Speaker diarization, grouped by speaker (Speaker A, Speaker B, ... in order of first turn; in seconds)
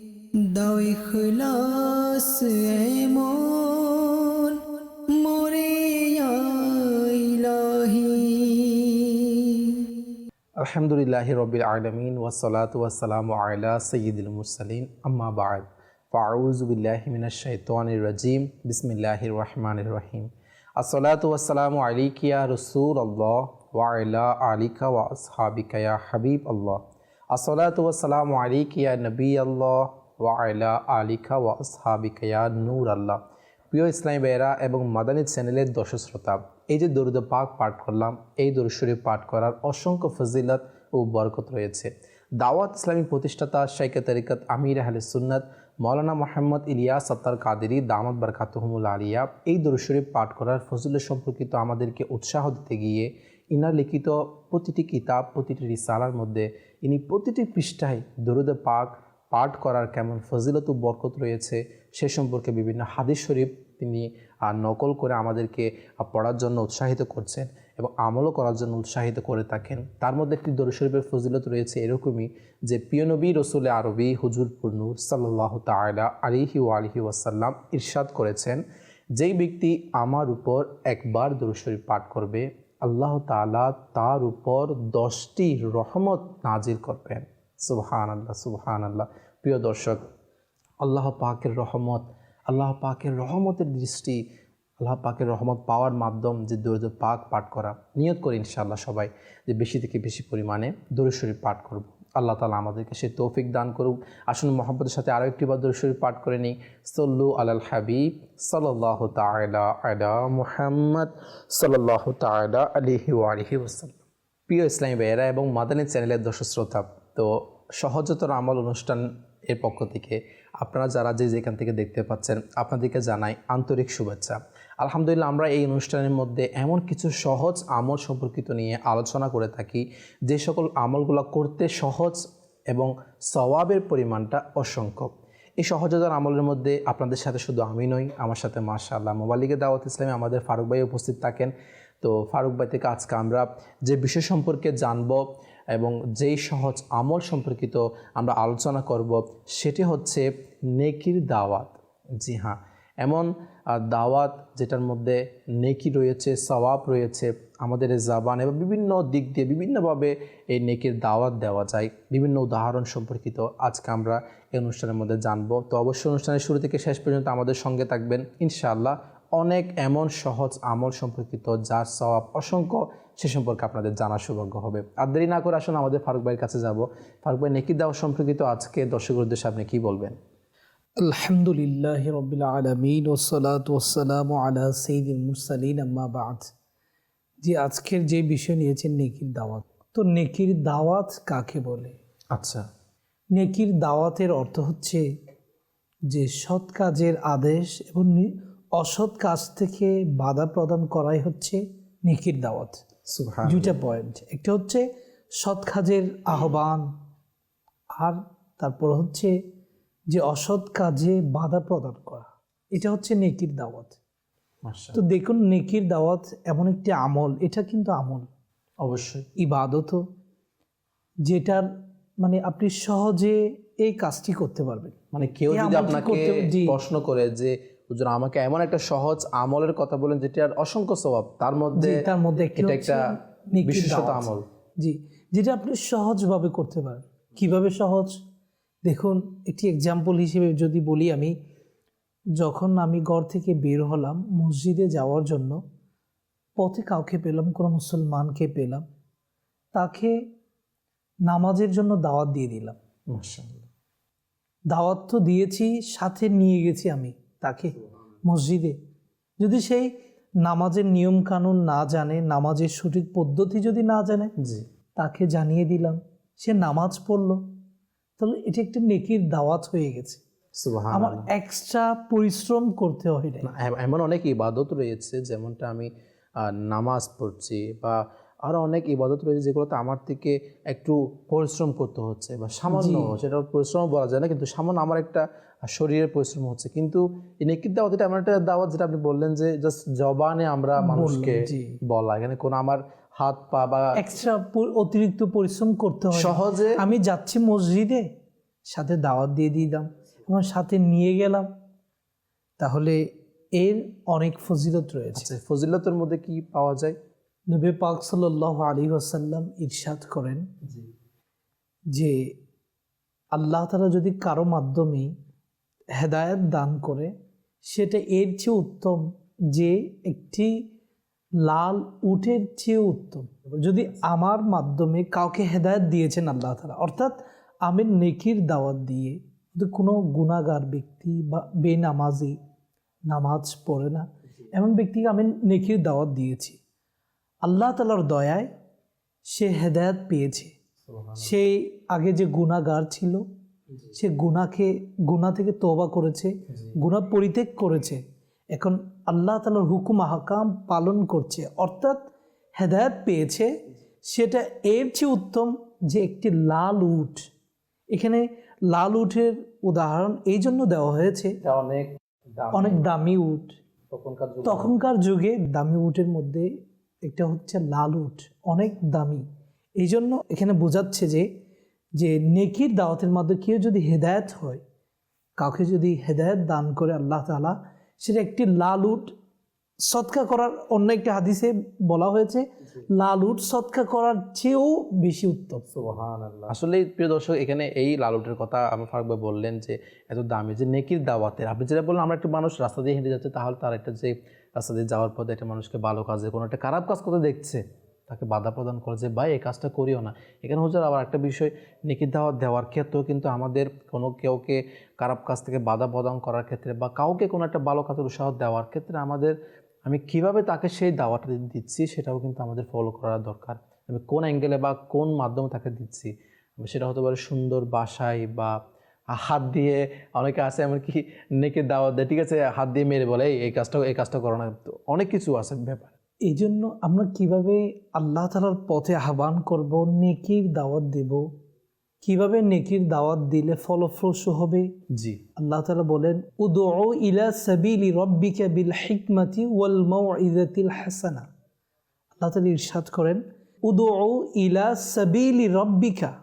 Speaker A: 0.4-9.8
Speaker B: 10.6-33.2, 33.7-78.6, 79.2-90.1, 90.8-94.2, 94.8-180.2, 192.3-192.7, 203.1-203.8, 214.7-215.0, 218.8-219.3, 225.1-233.0, 233.6-234.4, 253.1-253.7, 264.4-264.7, 270.6-271.3, 273.4-294.0, 296.1-296.8, 305.1-307.0, 340.9-341.4, 361.4-362.8, 363.9-364.8, 385.7-418.6, 419.1-425.9, 434.9-435.2
Speaker C: 181.0-186.5, 187.4-191.9, 193.3-195.0, 196.1-202.8, 203.5-204.9, 205.4-206.9, 207.9-209.4, 210.1-214.0, 214.9-218.3, 219.4-220.0, 221.2-221.7, 222.2-225.0, 225.5-226.8, 231.8-238.2, 238.8-241.3, 242.4-245.6, 246.6-248.9, 249.7-250.2, 251.3-252.8, 254.7-258.8, 259.4-264.3, 265.0-267.4, 268.2-270.2, 270.9-273.5, 282.7-283.1, 290.8-291.8, 294.0-298.1, 298.7-301.5, 302.6-305.3, 307.5-310.5, 311.9-312.3, 313.3-315.1, 316.0-317.1, 317.7-320.6, 321.4-332.4, 333.1-336.6, 337.4-338.5, 339.3-340.6, 341.2-343.3, 343.9-353.5, 354.1-357.2, 357.9-361.4, 362.5-363.5, 364.4-366.5, 367.0-369.3, 369.8-371.3, 372.0-374.6, 375.4-379.1, 379.9-385.7, 426.3-431.3, 432.0-434.7, 435.4-441.3, 442.2-446.1